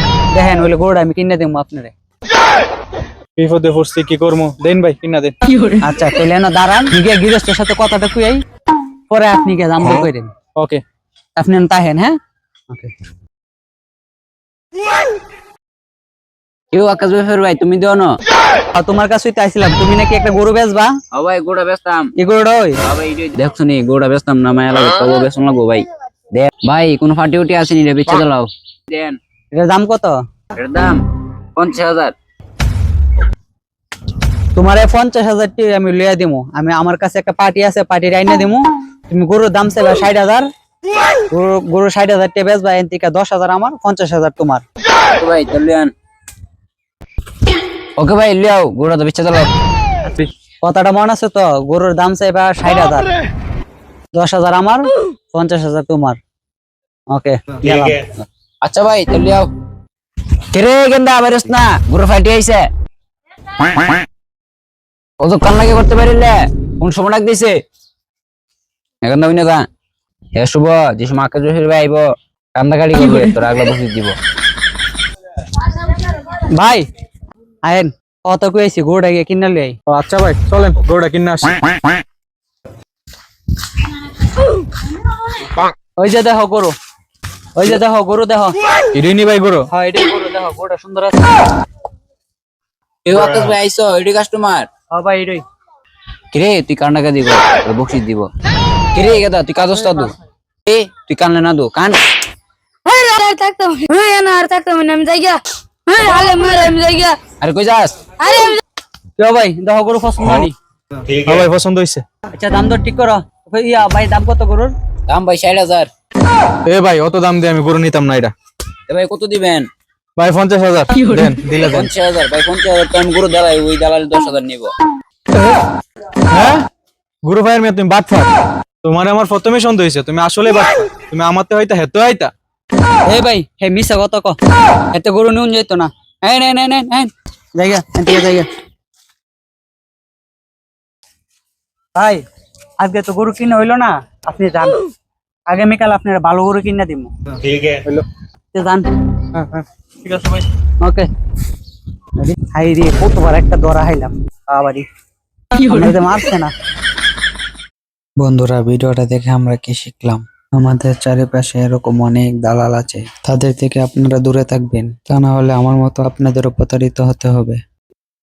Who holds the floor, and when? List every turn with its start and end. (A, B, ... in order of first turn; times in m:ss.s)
0:00.3-0:01.9 A
0:03.4-0:05.4 B
0:05.4-0:05.8 C
0:05.8-0:08.4 A
0:09.1-0:10.3 A
0:10.6-0:10.8 B
0:11.4-0:12.1 A
0:16.7-0:18.1 D
0:18.7-0:20.9 A
0:21.1-0:22.1 D
0:22.2-0:22.8 A
0:22.8-0:29.2 D
0:29.6-0:30.1 A
0:30.5-0:31.0 D
0:31.6-0:32.1 D
0:34.6-0:40.5 A
0:41.3-0:44.6 A
0:45.2-0:45.9 D
0:48.0-0:49.5 D
0:50.6-0:53.1 A
0:54.1-0:56.2 A
0:57.1-0:58.1 A
0:58.6-0:59.5 D
1:00.5-1:02.7 D
1:03.6-1:04.0 D
1:05.2-1:07.6 D
1:09.0-1:09.6 D
1:10.4-1:12.0 D
1:12.6-1:14.2 D
1:16.2-1:16.8 A
1:17.6-1:19.7 A
1:19.9-1:21.7 B
1:26.0-1:26.7 A
1:27.6-1:28.5 A
1:28.9-1:29.6 B
1:29.7-1:31.4 A
1:33.0-1:34.7 D
1:34.9-1:35.4 A
1:36.3-1:38.3 D
1:38.9-1:40.1 D
1:40.6-1:42.0 D
1:42.8-1:47.2 C
1:47.4-1:48.2 D
1:48.2-1:48.6 C
1:49.2-1:50.5 A
1:51.1-1:52.0 B
1:52.3-1:54.7 A
1:55.1-1:55.9 D
1:56.6-1:58.3 B
1:58.9-1:59.7 D
2:00.2-2:01.9 B
2:00.9-2:01.4 C
2:01.7-2:04.7 D
2:05.3-2:05.6 B
2:06.3-2:06.6 B
2:07.2-2:08.3 B
2:08.8-2:12.3 B
2:13.1-2:14.4 A
2:14.9-2:18.5 A
2:21.9-2:22.2 A
2:22.8-2:24.8 A
2:25.5-2:27.1 A
2:28.5-2:28.9 A
2:29.3-2:30.4 B
2:30.8-2:31.1 A
2:32.2-2:34.8 A
2:35.5-2:35.9 C
2:35.5-2:36.5 A
2:38.2-2:47.6 E